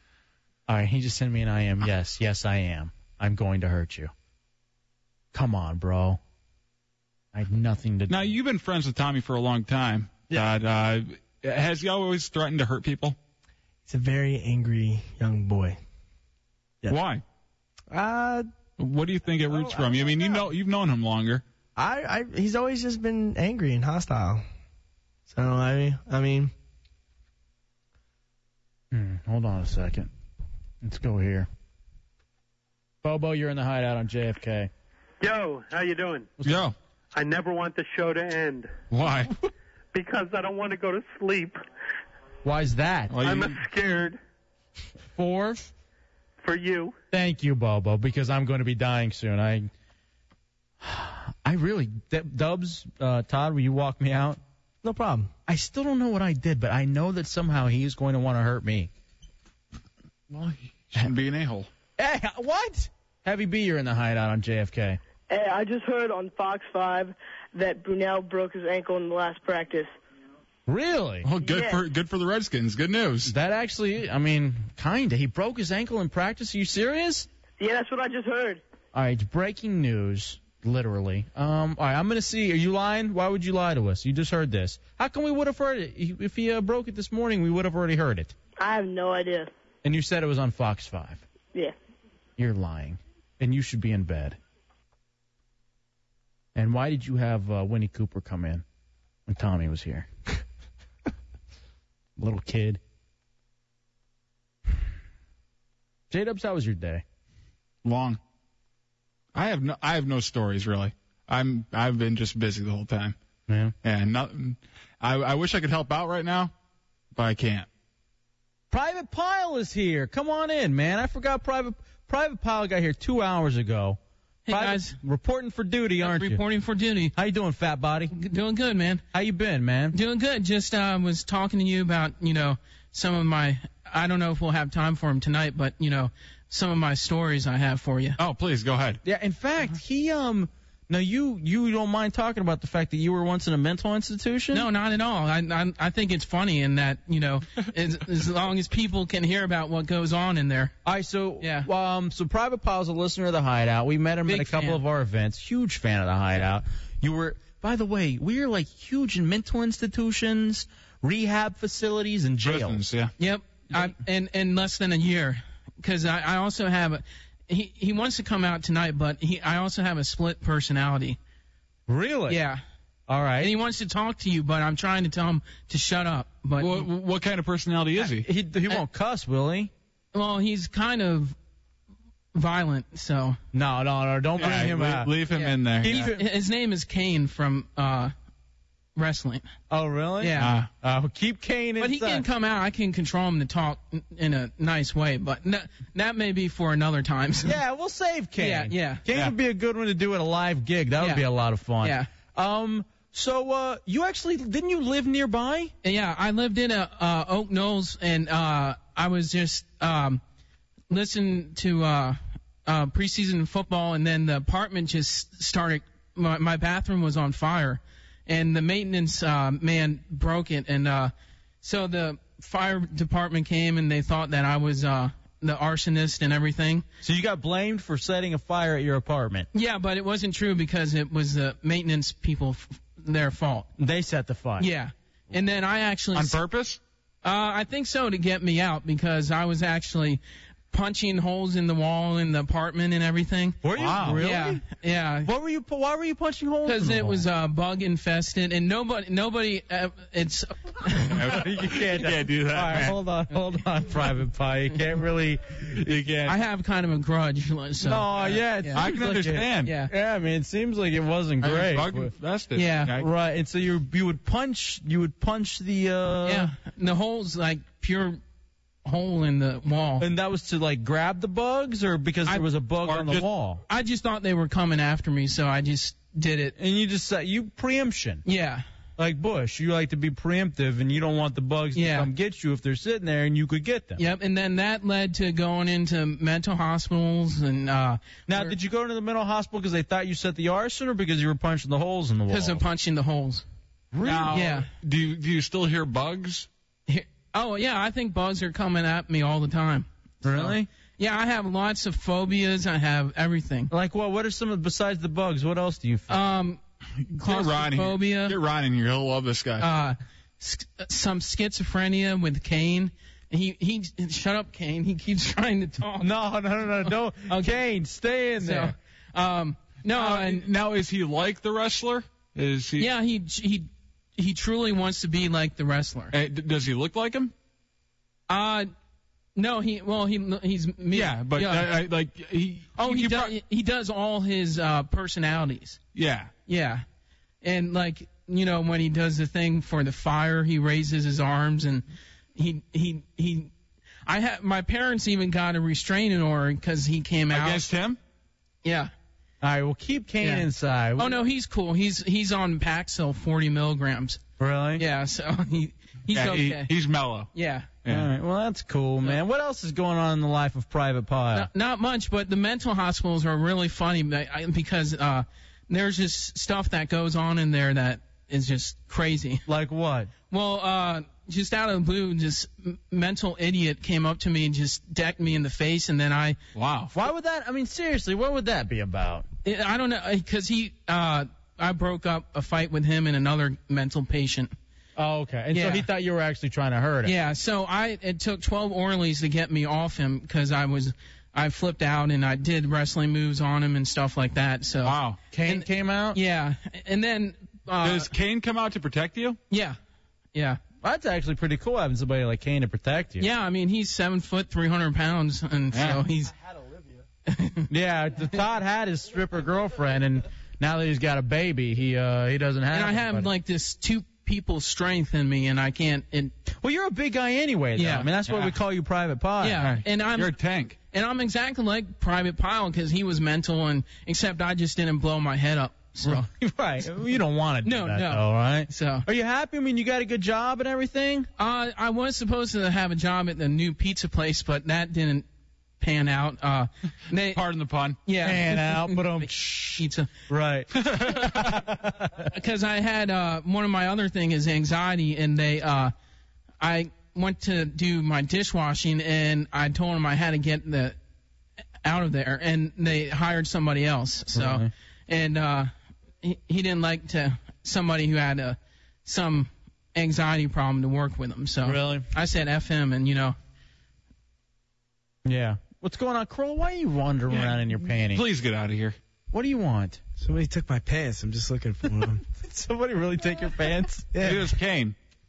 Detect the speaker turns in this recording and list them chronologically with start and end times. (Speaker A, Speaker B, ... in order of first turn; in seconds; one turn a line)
Speaker A: 0.7-4.1
Speaker A: 5.3-6.2
Speaker A: 7.3-8.3
Speaker B: 8.1-13.2
Speaker C: 13.9-15.8
Speaker B: 16.9-17.2
Speaker C: 17.9-18.5
Speaker B: 18.8-21.4
Speaker C: 19.5-20.5
Speaker C: 21.8-24.4
Speaker C: 25.3-26.5
Speaker A: 28.9-30.1
Speaker A: 30.8-31.5
Speaker A: 33.0-34.7
Speaker D: 35.2-36.3
Speaker A: 36.4-36.7
Speaker B: 36.4-36.8
Speaker D: 37.1-38.7
Speaker B: 38.9-39.3
Speaker D: 39.9-41.6
Speaker A: 42.4-43.2
Speaker B: 43.1-43.6
Speaker D: 43.2-44.2
Speaker A: 45.1-45.6
Speaker D: 46.4-47.0
Speaker A: 47.1-49.7
Speaker A: 50.8-54.4
Speaker C: 54.8-55.3
Speaker A: 55.5-58.9
Speaker B: 60.3-61.7
Speaker A: 62.0-65.0
Speaker E: 65.3-69.9
Speaker A: 70.7-71.3
Speaker B: 71.2-73.3
Speaker E: 71.4-71.8
Speaker A: 73.3-77.3
Speaker E: 77.6-78.6
Speaker A: 78.9-88.3
Speaker E: 88.6-89.5
Speaker A: 89.8-91.2
Speaker A: 92.4-94.4
Speaker A: 96.5-98.7
Speaker A: 99.3-100.1
Speaker A: 102.2-102.8
Speaker A: 106.1-107.0
Speaker B: 107.8-108.2
Speaker B: 109.3-113.2
Speaker A: 113.5-113.8
Speaker B: 113.8-116.5
Speaker B: 117.1-117.7
Speaker A: 118.7-126.4
Speaker F: 124.5-125.0
Speaker F: 126.0-127.1
Speaker A: 127.1-128.1
Speaker F: 128.1-129.0
Speaker A: 129.1-130.0
Speaker F: 129.9-138.2
Speaker B: 138.2-139.0
Speaker A: 139.0-144.7
Speaker F: 144.5-150.7
Speaker A: 150.8-162.8
Speaker F: 151.4-151.7
Speaker F: 154.3-154.8
Speaker B: 162.4-163.1
Speaker F: 163.2-171.2
Speaker A: 171.9-172.4
Speaker F: 172.3-172.6
Speaker A: 173.1-173.5
Speaker F: 173.4-176.9
Speaker B: 176.6-178.3
Speaker A: 178.0-179.7
Speaker F: 180.1-181.4
Speaker F: 182.3-183.4
Speaker A: 183.5-185.2
Speaker B: 184.4-186.1
Speaker F: 185.3-188.1
Speaker A: 185.8-186.2
Speaker F: 189.0-189.5
Speaker A: 189.7-192.2
Speaker F: 190.2-190.7
Speaker B: 190.4-190.7
Speaker F: 191.8-197.5
Speaker A: 197.4-205.7
Speaker F: 198.4-199.0
Speaker F: 201.0-201.2
Speaker F: 201.8-202.1
Speaker F: 205.8-210.2
Speaker F: 210.9-226.8
Speaker A: 227.0-229.5
Speaker F: 229.5-233.7
Speaker A: 233.8-234.7
Speaker F: 234.6-236.4
Speaker B: 236.1-236.8
Speaker F: 237.2-240.2
Speaker F: 240.7-245.3
Speaker A: 243.6-244.6
Speaker B: 243.8-244.1
Speaker A: 245.2-247.3
Speaker F: 246.7-251.2
Speaker A: 251.1-256.1
Speaker B: 251.1-253.0
Speaker B: 255.8-256.3
Speaker F: 256.3-259.1
Speaker A: 257.8-262.1
Speaker B: 258.7-259.7
Speaker F: 259.6-259.9
Speaker B: 261.4-263.1
Speaker F: 262.6-262.9
Speaker A: 262.9-266.5
Speaker F: 266.2-268.2
Speaker F: 268.9-270.1
Speaker A: 270.0-273.6
Speaker B: 272.9-273.3
Speaker F: 273.7-276.5
Speaker A: 276.6-278.2
Speaker F: 278.3-278.6
Speaker A: 279.0-284.1
Speaker F: 281.8-282.1
Speaker F: 284.0-288.6
Speaker A: 288.3-292.6
Speaker F: 292.3-293.5
Speaker A: 293.9-294.6
Speaker B: 294.0-296.5
Speaker F: 294.3-294.7
Speaker F: 296.9-303.7
Speaker A: 300.2-300.7
Speaker A: 303.7-306.2
Speaker F: 306.1-306.6
Speaker B: 307.1-309.7
Speaker F: 307.2-308.4
Speaker F: 309.6-316.1
Speaker A: 316.0-318.8
Speaker F: 317.3-317.6
Speaker F: 318.4-320.5
Speaker B: 319.9-322.9
Speaker F: 322.8-326.1
Speaker B: 326.1-327.3
Speaker F: 328.3-328.7
Speaker F: 329.4-331.8
Speaker B: 330.9-333.3
Speaker F: 332.8-335.8
Speaker B: 335.9-336.3
Speaker F: 336.5-336.8
Speaker F: 337.4-343.5
Speaker F: 344.1-347.7
Speaker B: 347.3-348.0
Speaker F: 348.6-348.9
Speaker A: 349.4-351.2
Speaker F: 350.2-354.2
Speaker A: 354.4-354.9
Speaker F: 354.8-356.7
Speaker B: 356.1-357.3
Speaker F: 357.3-357.8
Speaker B: 357.8-358.1
Speaker A: 357.9-361.5
Speaker F: 361.3-369.4
Speaker A: 369.5-370.1
Speaker F: 370.3-376.4
Speaker B: 376.6-376.9
Speaker A: 376.9-379.3
Speaker F: 379.4-384.5
Speaker A: 385.0-387.1
Speaker F: 385.5-385.9
Speaker F: 387.1-398.1
Speaker B: 394.8-395.2
Speaker A: 395.3-396.2
Speaker B: 397.8-399.4
Speaker F: 399.5-399.8
Speaker F: 400.3-400.6
Speaker A: 400.8-403.3
Speaker F: 403.2-406.3
Speaker B: 405.7-406.0
Speaker F: 407.3-407.7
Speaker A: 407.7-413.3
Speaker F: 412.7-416.3
Speaker A: 416.5-419.8
Speaker F: 417.8-418.5
Speaker F: 419.4-420.3
Speaker B: 419.6-420.8
Speaker F: 420.9-426.3
Speaker A: 426.0-431.3
Speaker F: 427.6-429.1
Speaker F: 431.4-435.2
Speaker F: 435.8-437.4
Speaker B: 437.3-438.0
Speaker F: 438.1-440.1
Speaker A: 438.2-442.3
Speaker B: 441.0-441.5
Speaker F: 442.3-445.9
Speaker F: 446.6-451.0
Speaker F: 451.8-455.7
Speaker A: 454.3-454.7
Speaker F: 456.2-463.4
Speaker A: 461.6-462.1
Speaker A: 465.2-468.3
Speaker B: 467.3-469.0
Speaker A: 469.3-470.0
Speaker G: 470.2-472.2
Speaker A: 472.3-474.4
Speaker B: 474.2-475.0